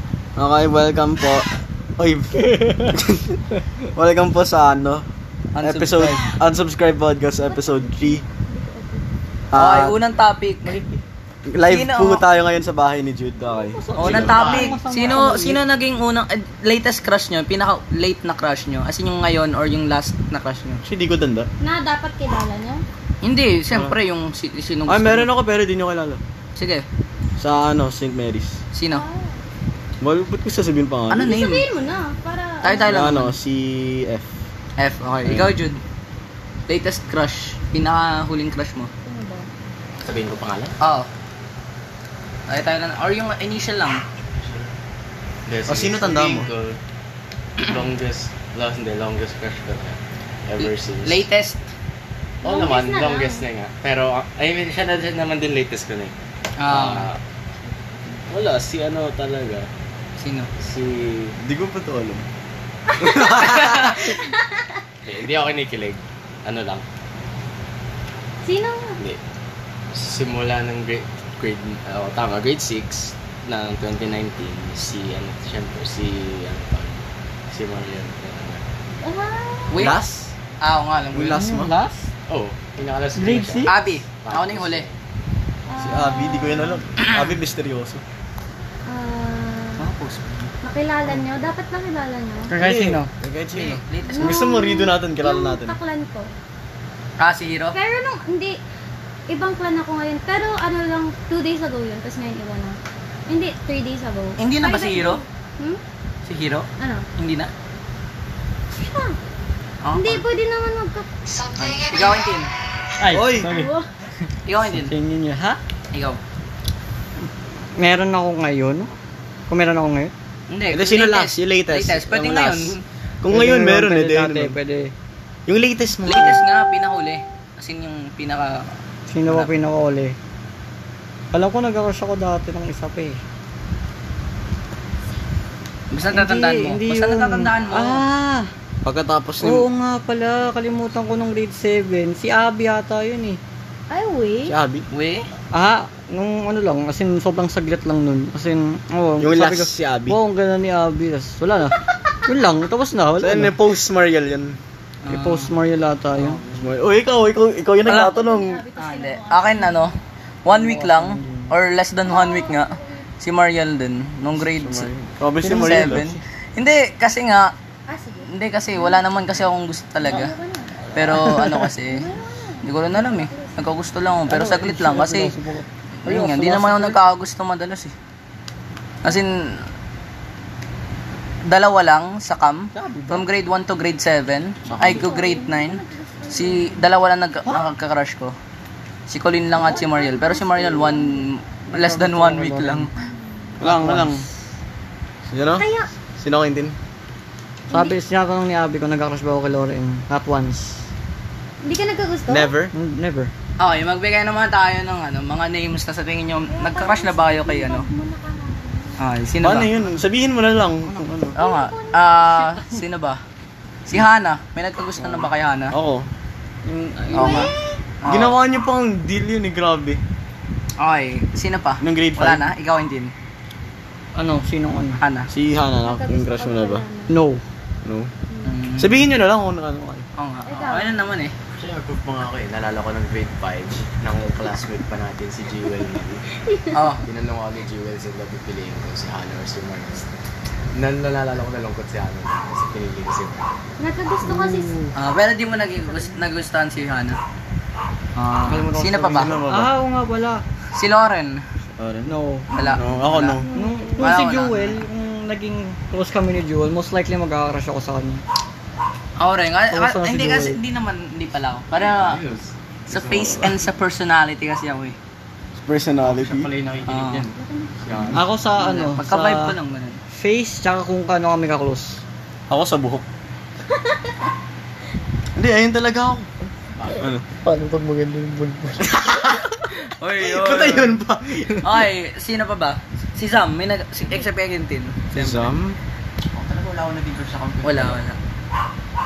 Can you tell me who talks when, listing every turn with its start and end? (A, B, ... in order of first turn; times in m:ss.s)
0:00.4-0:05.0 A
0:02.6-0:02.9 B
0:05.5-0:06.3 C
0:05.6-0:08.2 A
0:07.5-0:09.0 D
0:09.5-0:10.0 A
0:09.5-0:10.8 C
0:10.6-0:11.0 B
0:11.5-0:14.4 A
0:11.6-0:12.2 C
0:13.4-0:15.6 B
0:13.9-0:20.8 C
0:14.0-0:14.8 E
0:20.8-0:21.5 A
0:21.6-0:22.8 D
0:23.2-0:25.3 C
0:24.8-0:26.2 A
0:26.6-0:26.8 C
0:27.4-0:28.6 A
0:28.7-0:29.0 C
0:28.9-0:29.4 D
0:30.0-0:31.3 A
0:31.1-0:31.6 C
0:31.1-0:33.0 D
0:32.6-0:33.4 C
0:32.8-0:34.3 A
0:34.8-0:35.8 C
0:36.7-0:38.9 C
0:39.0-0:39.5 D
0:40.0-0:40.7 E
0:40.8-0:41.1 C
0:42.5-0:44.0 C
0:44.4-0:44.7 E
0:45.5-0:46.8 E
0:45.6-0:46.5 A
0:47.6-0:51.2 E
0:50.6-0:51.6 C
0:52.4-0:53.4 D
0:52.4-0:56.1 E
0:56.6-0:57.1 C
0:56.6-0:57.2 E
0:58.1-0:59.7 E
1:00.2-1:00.5 C
1:00.6-1:01.4 E
1:01.4-1:02.2 A
1:02.9-1:03.3 D
1:03.0-1:03.9 A
1:03.6-1:03.9 C
1:04.0-1:04.8 D
1:05.0-1:06.8 E
1:08.4-1:09.0 D
1:09.9-1:18.6 E
1:19.0-1:19.9 D
1:19.7-1:20.0 C
1:19.8-1:20.3 A
1:20.6-1:21.4 C
1:21.1-1:21.7 A
1:21.3-1:22.1 B
1:22.3-1:25.0 E
1:23.2-1:23.7 B
1:23.6-1:24.8 C
1:25.7-1:26.8 D
1:25.8-1:28.0 A
1:27.0-1:27.4 C
1:28.8-1:29.9 D
1:29.8-1:30.5 B
1:30.6-1:32.5 D
1:32.5-1:33.1 B
1:32.6-1:35.8 A
1:33.5-1:34.4 C
1:34.1-1:36.3 D
1:37.2-1:37.8 C
1:37.7-1:38.6 D
1:39.3-1:45.8 D
1:44.4-1:45.2 C
1:46.2-1:47.5 C
1:46.8-1:47.0 D
1:48.7-1:49.2 D
1:49.8-1:50.2 C
1:49.9-1:51.1 D
1:51.3-1:52.5 C
1:53.0-1:53.7 B
1:53.1-1:53.5 A
1:53.4-1:53.9 D
1:54.4-1:54.9 C
1:54.7-1:55.6 B
1:55.9-1:56.2 C
1:57.8-1:58.9 B
1:59.5-2:00.1 B
2:00.5-2:02.8 C
2:00.7-2:04.5 A
2:03.3-2:04.9 B
2:05.5-2:06.4 A
2:06.0-2:08.7 C
2:09.1-2:10.2 B
2:11.3-2:13.2 B
2:15.9-2:18.0 C
2:16.1-2:18.5 B
2:18.8-2:19.7 A
2:19.4-2:23.4 B
2:23.9-2:24.5 D
2:24.4-2:24.8 A
2:24.9-2:25.3 C
2:25.5-2:33.5 B
2:29.2-2:30.2 A
2:33.2-2:34.6 A
2:35.0-2:35.5 C
2:35.1-2:36.4 B
2:36.5-2:38.6 A
2:37.8-2:38.2 C
2:38.0-2:39.9 D
2:38.8-2:44.9 C
2:40.5-2:41.5 B
2:42.0-2:43.1 D
2:44.4-2:46.0 A
2:45.4-2:46.2 B
2:45.5-2:47.5 C
2:47.9-2:49.0 D
2:48.3-2:50.3 C
2:50.0-2:50.9 D
2:50.9-2:52.0 C
2:51.0-2:51.7 B
2:51.8-2:53.7 D
2:52.6-2:55.3 C
2:54.3-2:57.0 B
2:56.0-2:57.9 C
2:59.0-2:59.6 C
3:01.5-3:08.3 C
3:02.7-3:03.3 B
3:04.7-3:05.0 E
3:04.8-3:06.9 D
3:09.1-3:12.9 C
3:09.5-3:11.2 D
3:11.7-3:12.9 B
3:13.0-3:13.6 D
3:13.6-3:14.2 A
3:13.6-3:14.3 B
3:15.3-3:16.7 A
3:15.6-3:15.9 D
3:17.7-3:18.0 D
3:17.7-3:20.9 B
3:21.6-3:22.5 D
3:22.3-3:22.7 A
3:22.7-3:23.3 B
3:23.6-3:27.8 C
3:26.5-3:29.0 D
3:29.0-3:29.7 C
3:29.4-3:31.4 A
3:31.3-3:32.8 D
3:31.3-3:33.2 C
3:33.9-3:35.8 C
3:35.0-3:36.1 A
3:36.6-3:37.5 B
3:37.1-3:37.8 D
3:37.1-3:38.4 C
3:38.1-3:40.0 A
3:40.8-3:43.1 C
3:41.8-3:42.4 A
3:44.2-3:45.0 B
3:45.0-3:45.3 C
3:45.3-3:46.8 A
3:45.8-3:47.2 D
3:47.1-3:47.4 B
3:47.8-3:48.1 A
3:48.4-3:49.0 C
3:48.8-3:50.0 A
3:50.2-3:51.3 C
3:50.4-3:50.9 D
3:51.5-3:56.3 E
3:56.5-3:56.9 D
3:56.7-3:57.1 C
3:57.0-4:00.1 E
4:00.7-4:03.5 E
4:03.8-4:04.8 D
4:04.2-4:04.9 B
4:04.9-4:07.2 C
4:05.5-4:06.2 D
4:08.2-4:09.3 C
4:08.3-4:10.4 B
4:09.1-4:09.7 A
4:10.7-4:11.4 C
4:11.8-4:12.1 A
4:12.0-4:12.5 B
4:12.5-4:13.4 C
4:12.6-4:14.2 D
4:12.7-4:13.4 A
4:13.5-4:18.2 B
4:14.0-4:14.8 C
4:19.2-4:22.2 C
4:19.7-4:20.6 B
4:21.8-4:23.5 E
4:22.9-4:25.0 C
4:25.6-4:26.5 A
4:26.0-4:28.2 E
4:26.9-4:27.3 C
4:27.3-4:27.8 D
4:28.1-4:29.5 B
4:28.6-4:30.0 C
4:30.1-4:32.0 B
4:32.5-4:33.0 A
4:33.7-4:34.1 D
4:35.3-4:36.3 A
4:36.8-4:37.1 E
4:36.9-4:37.2 A
4:37.4-4:38.9 B
4:38.8-4:39.5 A
4:39.7-4:41.0 C
4:40.2-4:41.9 A
4:41.6-4:45.5 C
4:45.1-4:45.8 A
4:46.3-4:48.0 E
4:47.6-4:48.2 C